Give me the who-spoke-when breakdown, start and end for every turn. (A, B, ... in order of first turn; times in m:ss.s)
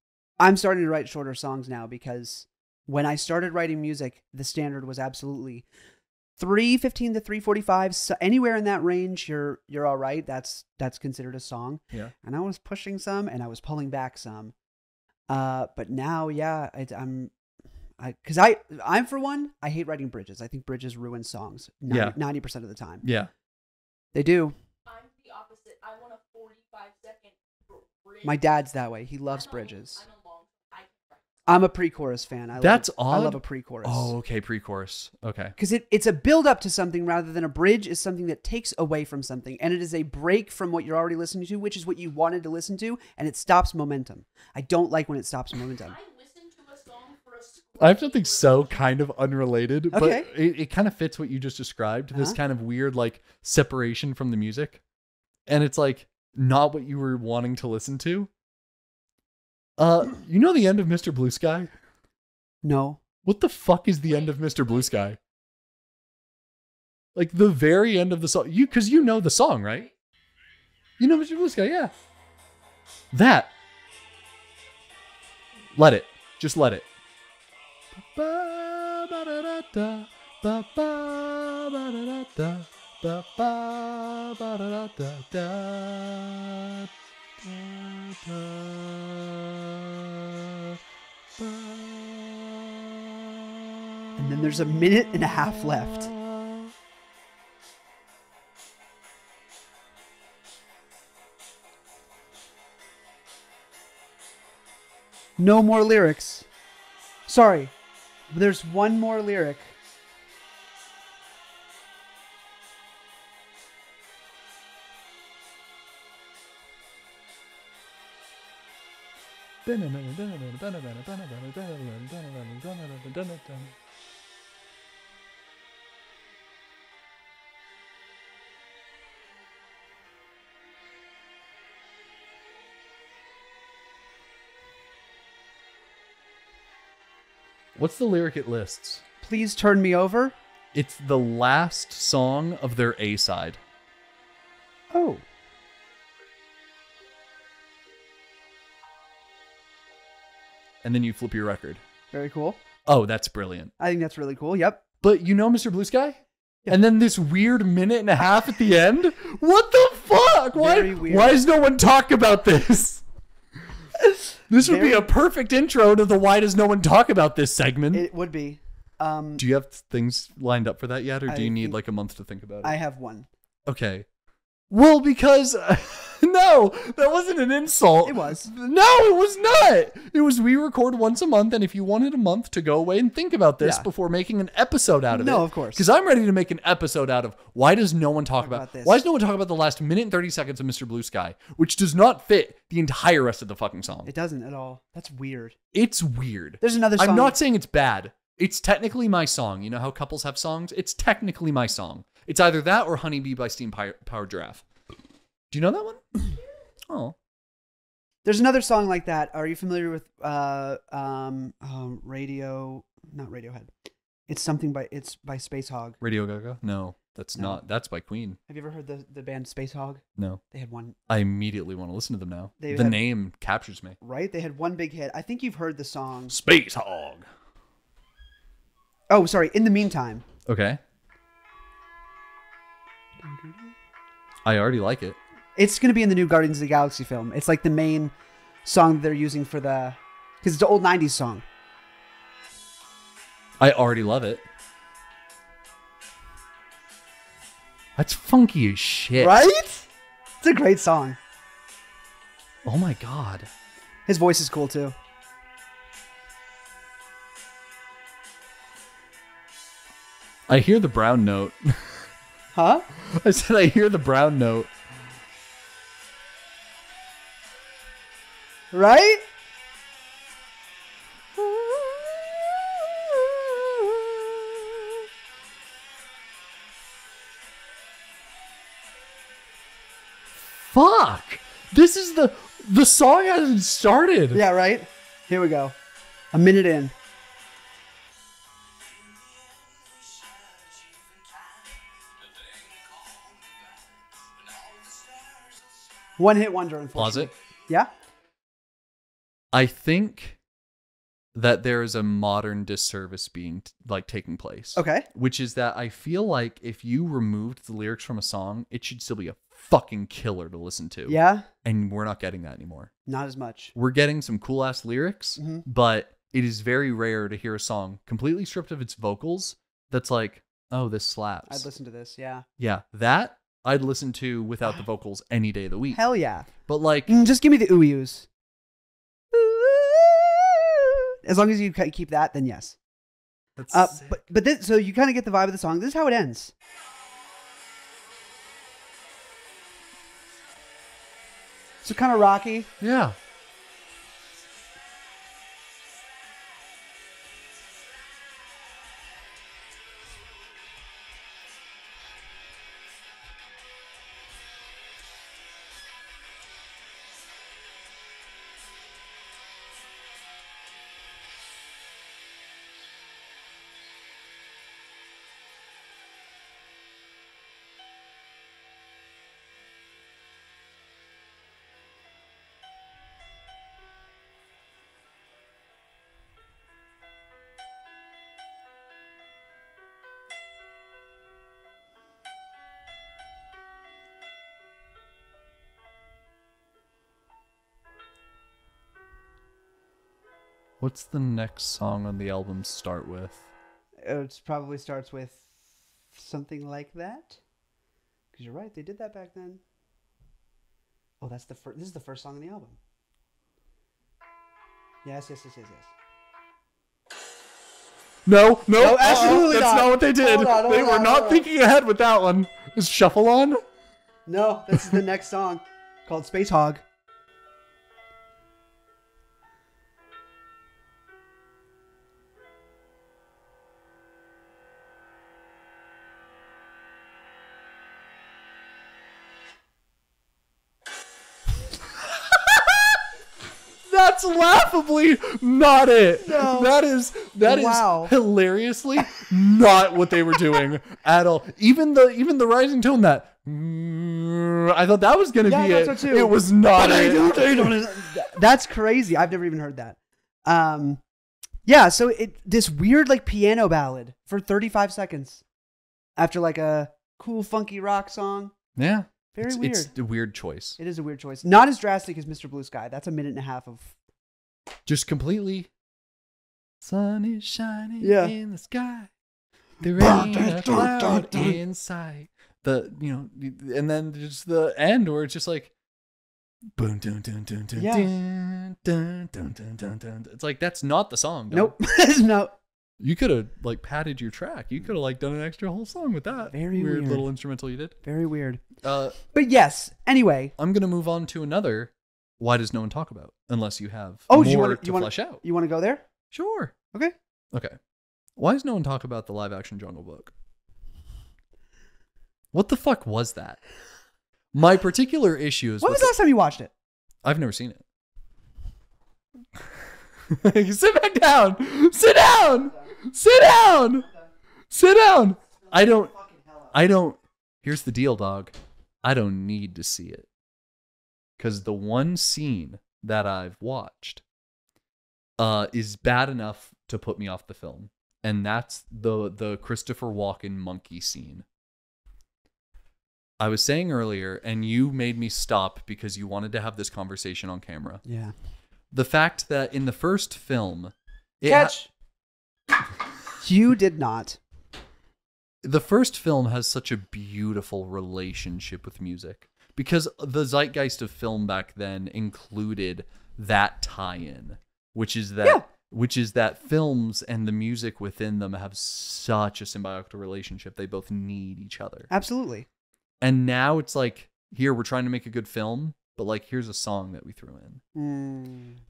0:00.4-0:05.7 A
0:06.4-0:14.5 A
0:15.3-0:17.3 A
0:18.0-0:23.0 A
0:21.9-0:22.2 B
0:23.0-0:23.3 B
0:24.1-0:24.5 A
0:24.9-0:28.6 C
0:28.2-0:30.0 A
0:29.3-0:31.3 C
0:31.5-0:34.1 A
0:32.6-0:35.6 B
0:35.6-0:46.0 A
0:45.8-0:48.8 C
0:47.8-0:54.8 B
0:49.9-0:50.3 A
0:55.5-0:58.3 B
0:59.8-1:01.7 B
1:02.6-1:03.0 A
1:03.2-1:05.2 B
1:04.1-1:04.9 C
1:07.2-1:09.9 B
1:11.0-1:11.9 B
1:13.1-1:13.5 B
1:15.8-1:16.9 B
1:18.0-1:30.8 B
1:31.4-1:33.0 B
1:34.2-1:36.1 A
1:35.6-1:36.7 B
1:45.4-1:46.5 A
1:47.3-1:47.7 A
1:48.3-1:49.8 A
1:59.6-2:03.7 B
2:17.8-2:19.0 B
2:19.2-2:20.4 A
2:20.7-2:23.6 B
2:24.9-2:25.2 A
2:30.8-2:31.8 B
2:32.1-2:32.6 A
2:32.9-2:33.7 B
2:33.8-2:34.8 A
2:35.0-2:43.0 B
2:40.6-2:41.4 A
2:44.0-2:45.1 A
2:44.5-2:48.1 B
2:47.9-2:49.4 A
2:49.4-2:52.8 B
2:51.3-2:51.8 A
2:52.6-2:53.3 A
2:53.7-2:54.1 B
2:54.7-3:14.1 B
2:58.0-2:58.5 A
3:03.6-3:03.9 A
3:05.1-3:05.9 A
3:08.4-3:09.0 A
3:14.0-3:15.6 A
3:15.7-3:24.6 B
3:16.6-3:17.4 A
3:25.5-3:26.2 B
3:26.9-3:27.2 B
3:28.2-3:33.7 A
3:34.3-3:36.0 A
3:36.0-3:38.4 B
3:37.4-3:37.6 A
3:38.5-3:41.0 A
3:40.2-3:40.4 B
3:41.1-3:44.0 B
3:42.6-3:43.0 A
3:44.0-3:46.4 A
3:46.3-3:47.3 B
3:49.1-3:50.2 A
3:50.5-3:50.8 B
3:53.2-3:53.7 A
3:54.4-3:55.2 B
3:55.6-3:58.1 A
3:58.6-4:01.4 A
4:03.6-4:04.4 B
4:08.0-4:09.4 B
4:09.2-4:09.9 A
4:10.4-4:11.2 A
4:12.6-4:13.5 B
4:14.1-4:15.0 A
4:20.5-4:22.1 B
4:22.5-4:22.8 A
4:22.9-4:24.7 B
4:28.7-4:29.2 A
4:31.4-4:34.9 B
4:40.6-4:44.4 B
4:44.3-4:45.8 A
4:46.3-4:46.9 A
4:56.2-4:57.9 A
4:57.0-4:57.3 B
4:59.5-5:00.4 B
5:01.3-5:12.9 B
5:04.8-5:05.1 A
5:11.1-5:11.5 A
5:13.1-5:13.7 A
5:13.8-5:21.7 B
5:15.4-5:15.6 A
5:21.5-5:22.4 A
5:22.6-5:26.0 B
5:25.9-5:26.5 A
5:26.7-5:27.2 B
5:27.1-5:28.3 A
5:29.3-5:32.8 A
5:33.6-5:34.2 B
5:33.7-5:36.5 A
5:41.8-5:42.7 A
5:42.8-5:43.2 B
6:30.8-6:33.4 B
6:34.0-6:37.4 A
6:38.3-6:39.6 A
6:41.2-6:42.8 A
6:45.0-6:45.9 A
6:48.3-6:53.6 B
6:48.8-6:51.5 A
6:54.3-6:56.8 A
6:54.7-6:55.0 B
7:12.3-7:13.0 B
7:13.8-7:28.1 B
7:16.2-7:16.7 A
7:17.4-7:18.1 A
7:25.5-7:31.0 A
7:31.6-7:35.4 A
7:36.2-7:38.5 A
7:38.8-7:40.8 B
7:39.3-7:39.9 A
7:40.8-7:44.0 A
7:44.9-7:45.7 B
7:46.8-7:49.1 B
7:48.0-7:48.4 A
7:49.8-7:55.7 B
7:50.0-7:51.6 A
7:56.8-8:01.8 B
7:57.8-7:58.1 A
8:01.5-8:02.5 A
8:03.0-8:08.0 B
8:06.4-8:07.3 A
8:08.0-8:10.5 A
8:08.8-8:09.2 B
8:10.6-8:15.4 B
8:14.3-8:16.0 A
8:16.3-8:16.8 B
8:17.5-8:17.8 B
8:18.4-8:20.3 B
8:22.5-8:23.6 B
8:24.5-8:26.1 B
8:25.8-8:26.7 A
8:27.2-8:27.8 B
8:30.3-8:34.1 B
8:34.7-8:36.2 B
8:36.2-8:36.6 A
8:36.7-8:40.3 B
8:41.4-8:44.2 B
8:45.4-8:51.5 B
8:53.4-8:58.0 B
8:58.0-8:58.3 A
8:58.9-9:01.8 B
9:01.5-9:01.9 A
9:03.4-9:04.4 A
9:05.6-9:22.1 B
9:22.1-9:22.7 A
9:23.2-9:27.8 B
9:28.0-9:28.8 A